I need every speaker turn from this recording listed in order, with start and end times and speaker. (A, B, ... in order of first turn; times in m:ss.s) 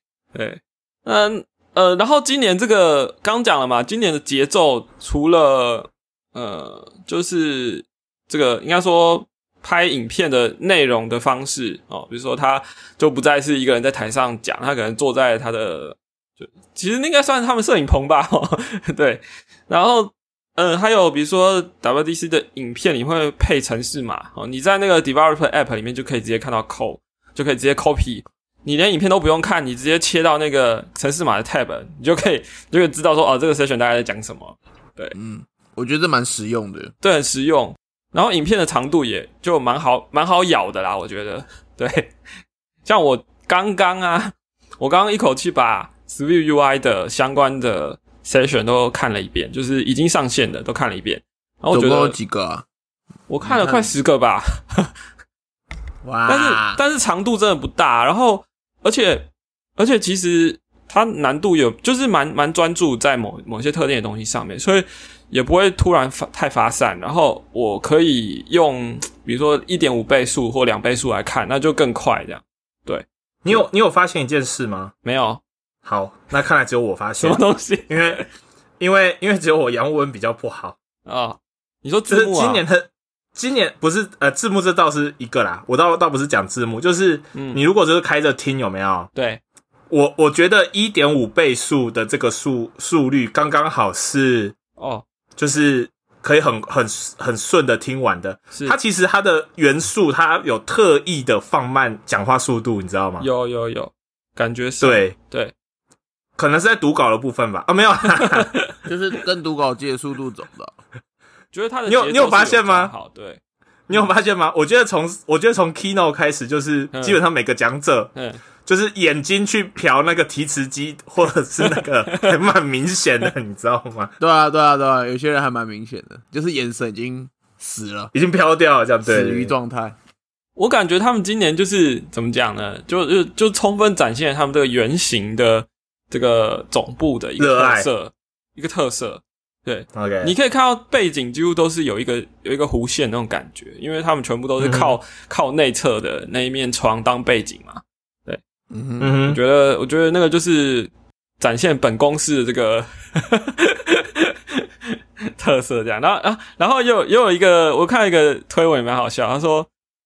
0:00.3-0:35.1 A
0:35.1-0:36.9 B
0:37.0-0:42.1 A
0:42.8-0:52.2 A
0:51.7-0:52.6 B
0:53.3-0:54.9 A
0:53.4-0:53.9 B
0:56.0-0:56.8 B
0:56.3-1:13.6 A
1:13.4-1:14.9 C
1:15.0-1:15.4 A
1:15.8-1:18.2 C
1:17.2-1:18.2 A
1:18.8-1:20.7 C
1:21.0-1:22.6 A
1:22.1-1:29.1 C
1:27.3-1:27.6 A
1:29.1-1:29.4 A
1:29.9-1:34.5 C
1:34.8-1:35.0 A
1:35.4-1:43.3 C
1:43.2-1:45.5 A
1:44.8-1:45.1 C
1:46.4-1:48.5 C
1:48.8-1:50.7 B
1:51.5-1:53.4 A
1:51.8-1:52.9 C
1:53.9-1:58.1 C
1:56.9-1:57.2 A
1:58.1-1:58.4 A
1:58.6-2:04.1 C
2:01.6-2:02.2 A
2:04.2-2:08.1 B
2:08.1-2:09.5 C
2:09.0-2:10.0 B
2:10.6-2:28.4 A
2:17.4-2:17.9 C
2:19.9-2:20.3 C
2:24.6-2:25.0 C
2:28.7-2:29.1 B
2:29.0-2:29.4 C
2:29.2-2:34.6 A
2:35.4-2:39.7 A